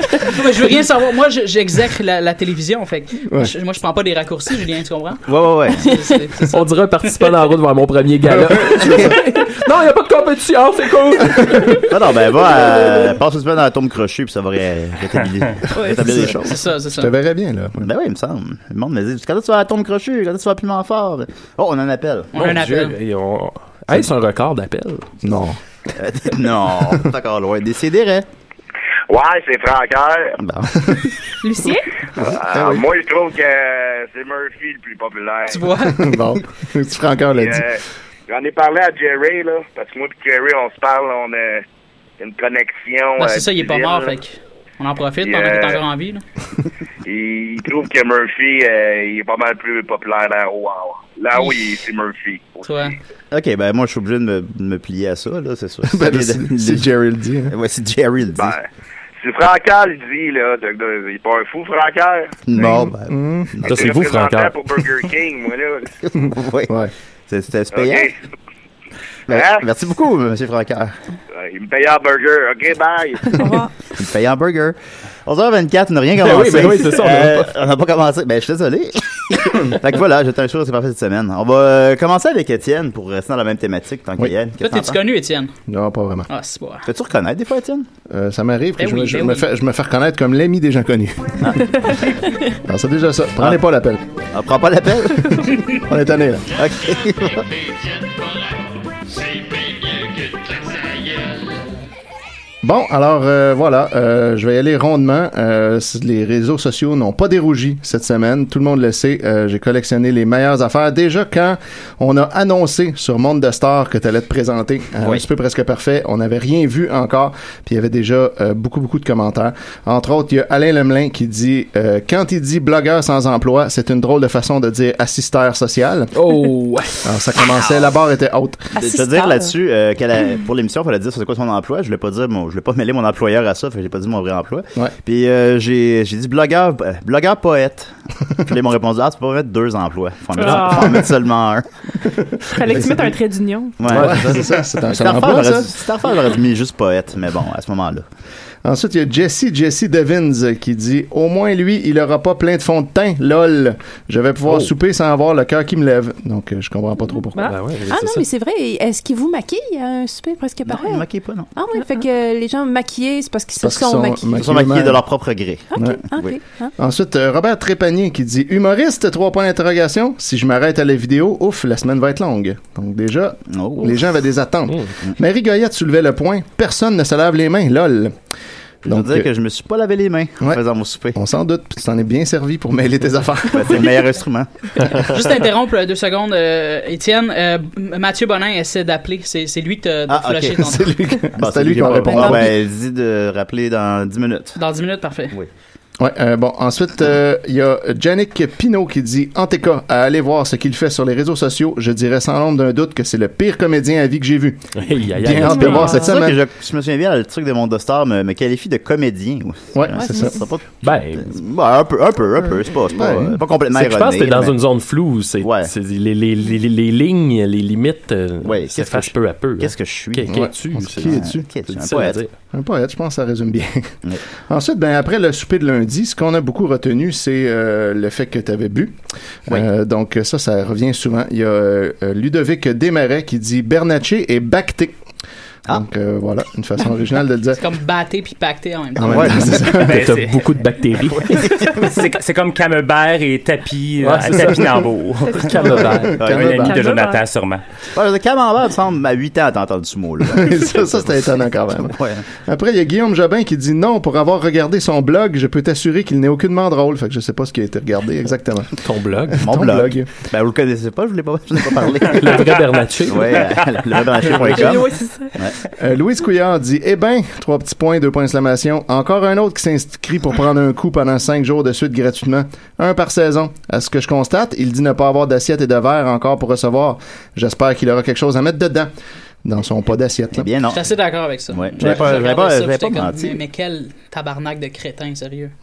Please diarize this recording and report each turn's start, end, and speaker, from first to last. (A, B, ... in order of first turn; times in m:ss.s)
0:00.2-0:06.7 A
0:05.2-0:05.9 B
0:06.5-0:12.0 C
0:08.8-0:09.1 D
0:11.8-0:16.6 B
0:15.8-0:17.8 D
0:16.4-0:17.1 A
0:17.8-0:22.3 B
0:22.3-0:23.0 A
0:22.3-0:25.1 C
0:25.2-0:25.6 D
0:25.9-0:28.2 B
0:29.1-0:30.4 E
0:30.4-0:30.7 B
0:31.4-0:31.9 F
0:32.2-0:35.7 E
0:32.2-0:32.8 D
0:35.5-0:36.0 A
0:35.8-0:37.6 D
0:37.3-0:41.6 E
0:42.2-0:44.1 E
0:43.2-0:46.2 A
0:45.2-0:45.8 E
0:47.0-0:52.8 E
0:52.6-0:53.0 A
0:53.3-0:56.9 B
0:55.9-0:57.5 D
0:57.5-0:58.6 B
0:58.3-0:58.7 E
0:59.2-1:02.4 E
1:02.4-1:04.0 B
1:02.6-1:03.7 D
1:03.6-1:04.6 C
1:03.7-1:05.9 E
1:06.1-1:06.7 B
1:07.3-1:08.1 B
1:07.7-1:08.1 E
1:09.3-1:10.9 B
1:09.3-1:09.6 E
1:11.3-1:13.4 E
1:13.4-1:13.7 G
1:13.9-1:25.0 B
1:16.2-1:17.5 C
1:24.6-1:25.5 A
1:25.7-1:26.3 D
1:26.3-1:26.8 A
1:26.8-1:27.9 B
1:28.1-1:32.0 D
1:28.8-1:29.5 A
1:32.6-1:34.0 D
1:33.4-1:33.6 B
1:34.3-1:35.6 B
1:35.3-1:36.5 D
1:36.5-1:37.5 B
1:42.6-2:06.1 D
1:55.0-1:55.2 B
2:06.1-2:07.1 C
2:07.0-2:08.8 D
2:08.8-2:21.6 B
2:20.4-2:21.0 F
2:22.1-2:23.1 D
2:22.5-2:23.9 F
2:23.8-2:28.0 B
2:23.8-2:24.5 C
2:23.8-2:25.7 D
2:28.6-2:37.5 D
2:34.4-2:34.7 C
2:37.4-2:38.2 C
2:37.9-2:44.4 G
2:40.6-2:41.5 B
2:43.6-2:45.0 D
2:44.4-2:46.3 B
2:45.7-2:46.7 G
2:45.7-2:46.0 D
2:46.8-2:58.1 D
2:53.5-2:54.0 B
2:58.8-2:59.3 D
2:58.8-3:01.2 B
3:01.1-3:04.0 D
3:03.5-3:04.7 B
3:05.0-3:10.9 A
3:10.1-3:10.8 B
3:10.6-3:12.5 D
3:11.3-3:14.6 B
3:14.6-3:15.3 A
3:16.0-3:26.4 D
3:24.8-3:26.0 C
3:25.5-3:34.6 B
3:25.6-3:26.0 F
3:29.7-3:30.4 D
3:30.8-3:31.4 C
3:32.9-3:33.4 D
3:33.7-3:42.3 C
3:35.4-3:35.7 B
3:38.4-3:42.2 B
3:40.3-3:41.5 D
3:42.5-3:43.9 D
3:44.5-3:49.0 D
3:49.5-3:55.0 D
3:55.7-3:57.6 D
3:57.6-3:59.6 A
3:59.0-4:00.1 D
3:59.1-3:59.7 B
3:59.4-4:01.7 C
3:59.8-4:00.5 H
4:01.2-4:01.8 B
4:01.6-4:07.6 H
4:04.0-4:06.2 C
4:05.2-4:07.2 F
4:05.9-4:06.8 D
4:06.2-4:06.7 B
4:07.9-4:11.2 B
4:10.3-4:20.1 D
4:11.8-4:12.2 B
4:18.8-4:19.5 C
4:19.4-4:25.6 B
4:22.0-4:24.8 C
4:24.5-4:25.4 F
4:25.7-4:38.9 D
4:39.4-4:40.5 D
4:40.3-4:40.9 B
4:40.7-4:45.5 A
4:41.5-4:43.4 B
4:41.8-4:42.1 D